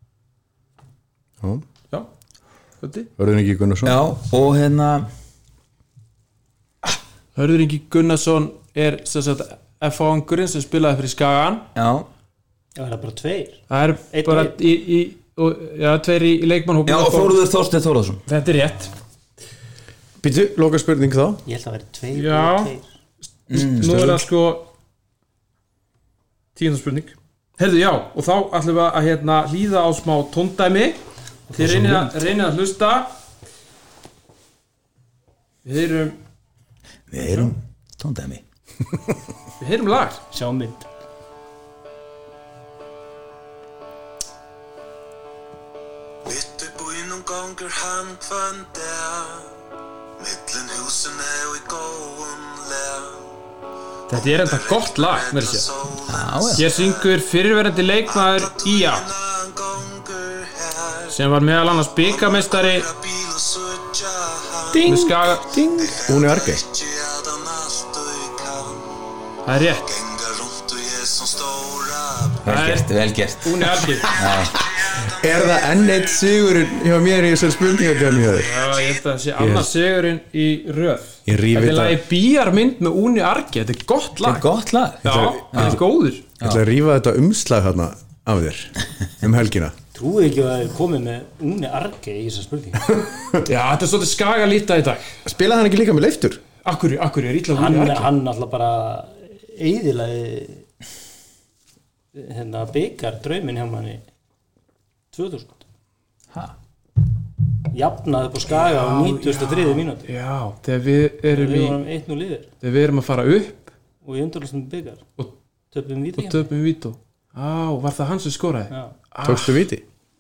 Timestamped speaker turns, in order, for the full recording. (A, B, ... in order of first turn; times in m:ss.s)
0:02.8-0:03.1 A
0:03.2-0:04.0 B
0:03.8-0:05.1 C
0:07.4-0:11.6 A
0:11.7-0:12.1 C
0:12.8-0:13.6 D
0:13.7-0:17.4 A
0:14.1-0:14.6 D
0:16.9-0:18.2 C
0:18.3-0:18.9 A
0:20.2-0:21.4 B
0:21.4-0:22.9 D
0:22.1-0:22.7 A
0:23.5-0:24.7 A
0:23.5-0:24.2 C
0:26.6-0:31.0 A
0:31.5-0:32.1 D
0:31.6-0:33.1 A
0:35.6-0:36.2 A
0:37.1-0:38.4 C
0:39.6-0:40.2 A
0:40.3-0:40.9 D
0:46.2-0:49.5 E
0:50.2-0:53.2 E
0:54.1-0:55.7 A
0:56.0-0:56.7 C
0:56.6-0:59.1 A
0:59.0-1:01.1 E
1:01.1-1:02.9 A
1:02.8-1:04.7 E
1:04.7-1:06.6 B
1:04.8-1:05.5 A
1:05.9-1:06.2 E
1:06.7-1:08.9 E
1:09.4-1:10.0 A
1:09.9-1:12.4 E
1:12.4-1:14.6 C
1:12.4-1:12.9 A
1:13.4-1:14.2 A
1:15.0-1:18.6 B
1:18.4-1:24.4 A
1:19.4-1:19.7 B
1:21.3-1:22.0 B
1:24.2-1:25.8 C
1:25.0-1:26.2 A
1:25.0-1:25.8 B
1:26.4-1:29.7 B
1:29.9-1:33.0 D
1:33.4-1:35.2 A
1:35.2-1:36.4 B
1:36.6-1:38.1 A
1:37.5-1:40.6 D
1:42.1-1:44.0 D
1:45.1-1:45.6 D
1:47.7-1:50.1 D
1:48.5-1:51.8 A
1:51.3-1:52.5 D
1:52.6-1:53.7 A
1:54.0-1:55.0 D
1:55.7-1:56.5 D
1:56.2-1:59.6 A
1:58.7-1:58.9 D
1:59.2-1:59.8 B